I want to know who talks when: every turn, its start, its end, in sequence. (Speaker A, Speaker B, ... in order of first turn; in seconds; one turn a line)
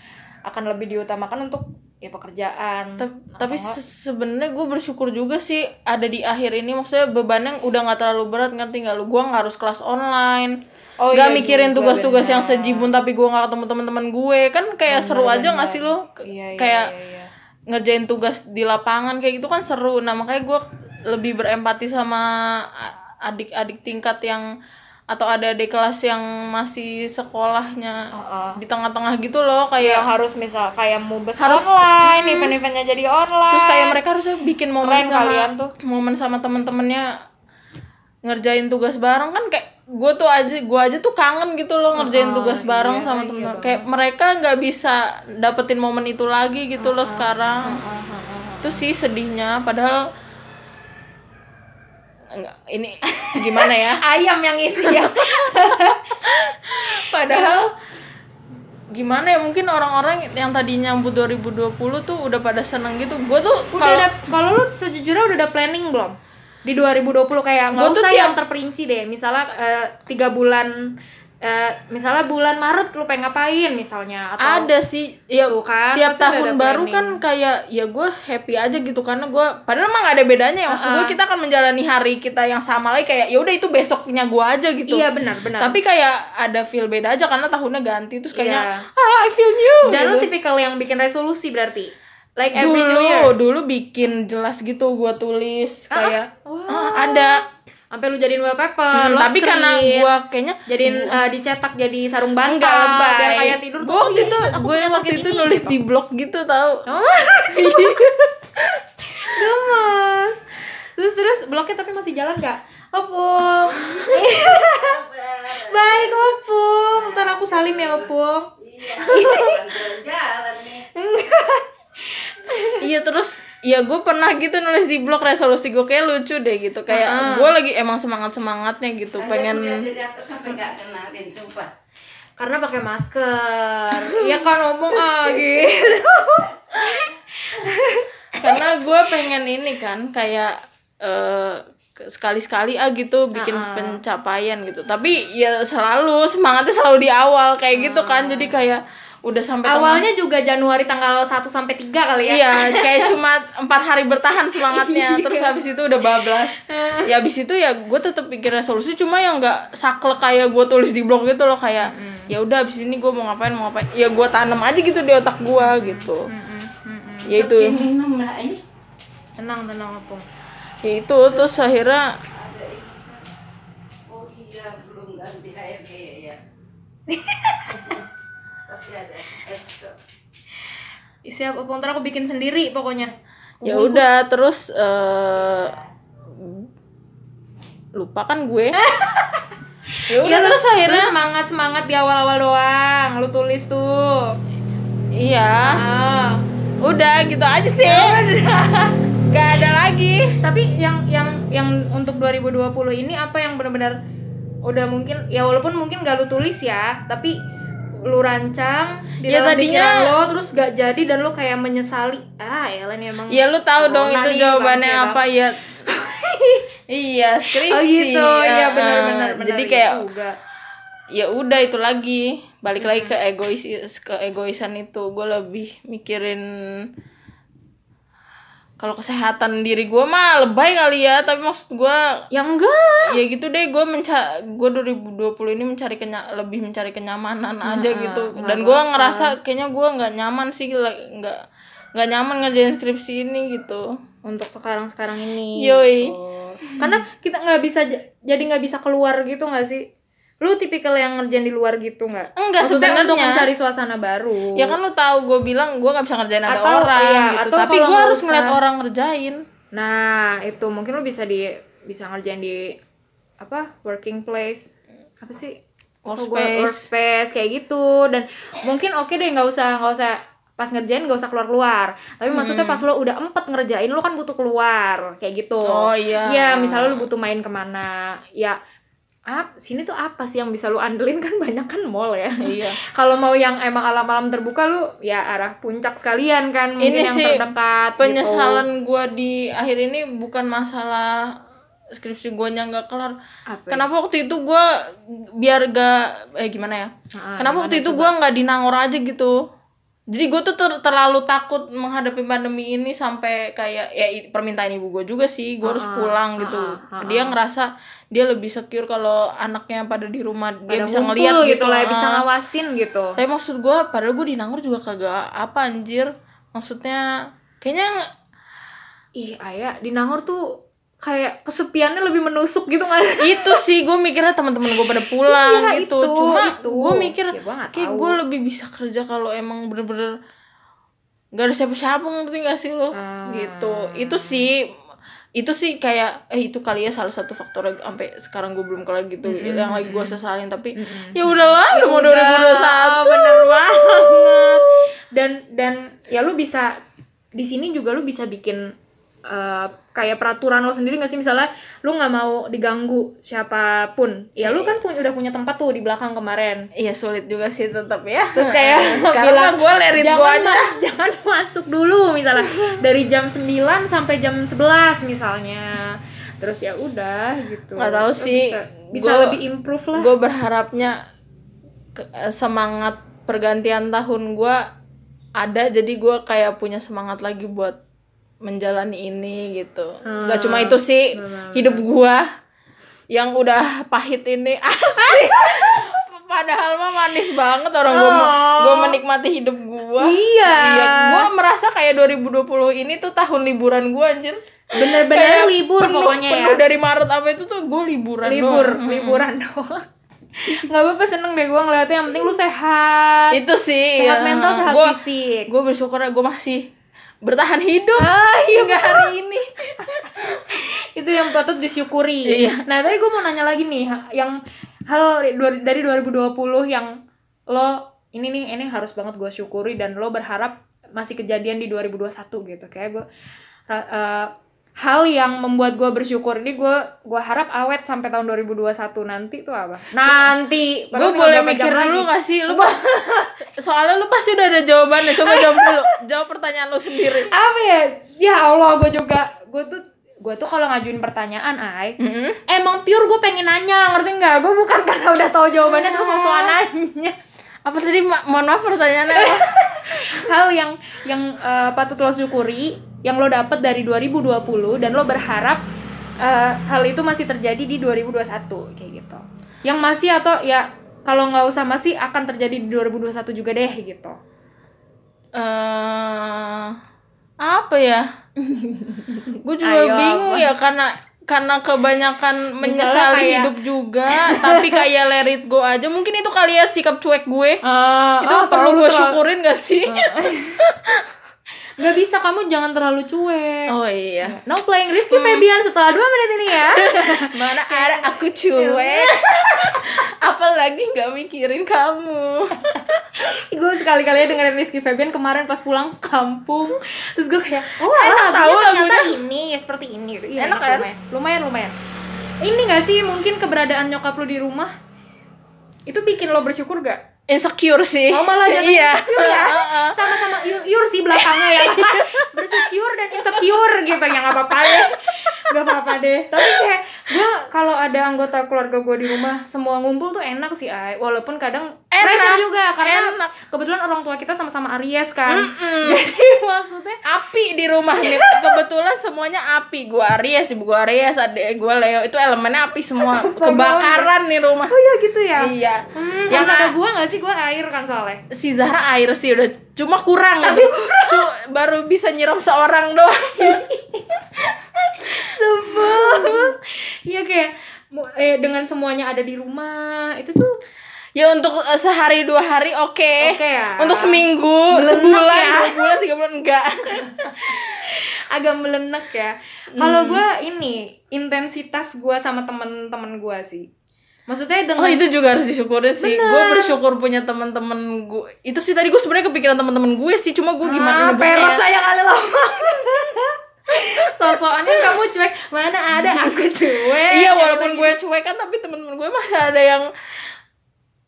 Speaker A: 0.5-3.8
Speaker B: 3.0-10.6
Speaker A: 11.0-13.0
Speaker B: 11.1-16.9
Speaker A: 14.9-17.3
Speaker B: 17.7-24.5
Speaker B: 25.1-28.1
Speaker A: 28.1-28.6
Speaker B: 28.6-30.1
Speaker A: 29.8-34.0
Speaker B: 31.4-32.5
Speaker B: 33.5-37.1
Speaker A: 34.8-35.7
Speaker B: 38.3-47.8
Speaker A: 42.0-43.9
Speaker A: 46.8-48.8
Speaker B: 48.6-50.0
Speaker B: 52.3-54.0
Speaker A: 53.1-56.2
Speaker B: 54.8-57.7
Speaker A: 57.3-57.6
Speaker B: 58.9-64.1
Speaker A: 63.7-70.7
Speaker B: 67.7-68.4
Speaker A: 71.4-74.7
Speaker B: 74.4-85.0
Speaker A: 75.5-77.2
Speaker A: 80.7-81.1
Speaker A: 84.9-85.8
Speaker B: 85.6-90.3
Speaker A: 88.3-88.8
Speaker A: 89.8-93.3
Speaker B: 92.5-97.4
Speaker A: 95.9-97.4
Speaker A: 97.9-100.1
Speaker B: 98.9-101.2
Speaker A: 100.7-105.8
Speaker B: 102.4-106.8
Speaker A: 106.9-107.9
Speaker B: 107.4-109.5
Speaker A: 109.2-112.6
Speaker B: 112.9-114.0
Speaker C: 113.8-116.4
Speaker A: 114.1-115.0
Speaker A: 115.5-119.7
Speaker C: 116.9-118.1
Speaker C: 118.6-120.9
Speaker A: 121.0-122.9
Speaker B: 122.8-129.9
Speaker A: 126.9-127.5
Speaker C: 129.2-131.7
Speaker A: 132.4-138.5
Speaker B: 134.0-134.5
Speaker B: 138.4-150.1
Speaker A: 143.3-144.0
Speaker A: 147.8-148.5
Speaker A: 149.7-153.1
Speaker B: 152.3-166.3
Speaker A: 154.6-155.6
Speaker A: 156.7-157.1
Speaker A: 161.8-162.3
Speaker A: 165.6-167.3
Speaker B: 167.3-167.9
Speaker C: 167.3-168.6
Speaker A: 169.4-170.2
Speaker B: 170.8-172.2
Speaker C: 172.3-173.2
Speaker C: 174.1-176.4
Speaker A: 177.1-178.0
Speaker C: 177.7-178.0
Speaker C: 178.7-179.9
Speaker A: 181.3-184.1
Speaker B: 183.7-185.7
Speaker B: 186.4-186.7
Speaker B: 188.0-188.8
Speaker A: 188.8-189.5
Speaker B: 190.1-191.1
Speaker A: 190.1-194.3
Speaker B: 195.2-195.8
Speaker A: 195.7-196.4
Speaker B: 196.8-198.2
Speaker A: 197.8-199.0
Speaker B: 199.3-200.4
Speaker A: 200.4-204.0
Speaker A: 204.7-207.4
Speaker A: 208.1-215.2
Speaker B: 209.3-210.1
Speaker B: 213.3-215.6
Speaker A: 215.9-216.6
Speaker B: 216.9-220.0
Speaker A: 217.5-220.4
Speaker B: 221.1-226.9
Speaker A: 222.8-223.1
Speaker B: 228.8-232.0
Speaker A: 232.3-233.2
Speaker B: 233.1-241.4
Speaker A: 237.7-239.3
Speaker B: 242.0-243.9
Speaker A: 244.3-249.9
Speaker B: 245.6-246.1
Speaker B: 246.7-247.0
Speaker A: 250.4-254.8
Speaker B: 252.4-253.5
Speaker B: 254.6-259.4
Speaker A: 256.5-258.6
Speaker A: 259.7-262.7
Speaker A: 263.4-265.6
Speaker B: 266.1-266.9
Speaker A: 266.2-278.6
Speaker B: 272.3-272.9
Speaker B: 275.7-277.1
Speaker A: 279.3-288.6
Speaker B: 282.4-282.8
Speaker B: 286.8-287.4
Speaker B: 288.0-291.3
Speaker B: 291.9-293.2
Speaker A: 293.5-293.9
Speaker B: 293.7-299.4
Speaker A: 297.1-298.1
Speaker B: 300.1-312.2
Speaker A: 305.6-307.4
Speaker A: 310.7-313.2
Speaker B: 313.2-317.1
Speaker B: 317.6-318.0
Speaker A: 319.2-323.6
Speaker B: 323.2-330.1
Speaker A: 325.2-328.2
Speaker B: 331.3-334.7
Speaker A: 332.9-334.5
Speaker B: 335.4-344.7
Speaker A: 339.2-340.2
Speaker A: 340.8-346.8
Speaker A: 347.4-348.7
Speaker A: 349.3-356.7
Speaker B: 354.4-354.8
Speaker B: 356.8-360.7
Speaker A: 358.4-370.1
Speaker B: 362.4-362.8
Speaker B: 367.8-369.4
Speaker B: 369.9-371.0
Speaker B: 372.0-374.6
Speaker B: 375.4-377.8
Speaker B: 378.4-382.2
Speaker A: 380.1-381.9
Speaker B: 383.1-399.2
Speaker A: 384.8-385.8
Speaker A: 387.9-389.0
Speaker A: 390.0-391.3
Speaker A: 394.8-396.6
Speaker A: 398.2-399.8
Speaker A: 400.4-403.4
Speaker B: 403.3-404.9
Speaker A: 404.0-405.5
Speaker B: 405.5-406.7
Speaker B: 407.2-410.4
Speaker A: 408.0-409.1
Speaker A: 409.8-414.4
Speaker B: 412.3-412.6
Speaker A: 414.9-416.9
Speaker A: 417.5-423.0
Speaker A: 423.7-433.3
Speaker B: 430.1-430.3
Speaker B: 430.9-437.3
Speaker A: 435.1-435.9
Speaker A: 437.3-442.0
Speaker B: 442.0-442.4
Speaker A: 442.5-447.2
Speaker B: 445.7-446.6
Speaker B: 447.7-450.2
Speaker A: 449.1-455.6
Speaker A: 456.2-464.2
Speaker B: 465.4-466.8
Speaker B: 467.4-468.1
Speaker A: 468.5-470.5
Speaker B: 469.4-477.6
Speaker A: 472.6-473.5
Speaker A: 474.1-474.8
Speaker A: 477.6-479.2
Speaker B: 478.2-481.1
Speaker A: 479.9-480.6
Speaker A: 481.8-483.7
Speaker B: 483.7-484.4
Speaker A: 484.2-489.8
Speaker B: 485.1-485.5
Speaker B: 486.8-493.0
Speaker A: 493.1-501.7
Speaker B: 497.8-499.2
Speaker B: 500.4-500.9
Speaker A: 502.4-504.7
Speaker A: 505.9-507.0
Speaker B: 507.3-510.3
Speaker A: 508.1-527.0
Speaker B: 511.1-512.7
Speaker B: 514.5-516.6
Speaker B: 521.9-523.3
Speaker B: 525.3-526.0
Speaker B: 527.0-534.7
Speaker A: 528.0-528.5
Speaker A: 533.0-534.1
Speaker A: 534.7-538.2
Speaker B: 535.4-536.8
Speaker B: 538.3-543.7
Speaker A: 540.4-541.3
Speaker A: 543.4-544.1
Speaker B: 544.4-546.5
Speaker A: 545.0-550.5
Speaker B: 551.2-557.6
Speaker A: 553.2-555.8
Speaker A: 557.0-563.7
Speaker B: 559.8-560.2
Speaker A: 564.3-565.0
Speaker B: 564.8-571.6
Speaker A: 566.0-566.8
Speaker A: 570.6-577.9
Speaker B: 573.8-575.0
Speaker B: 576.0-579.9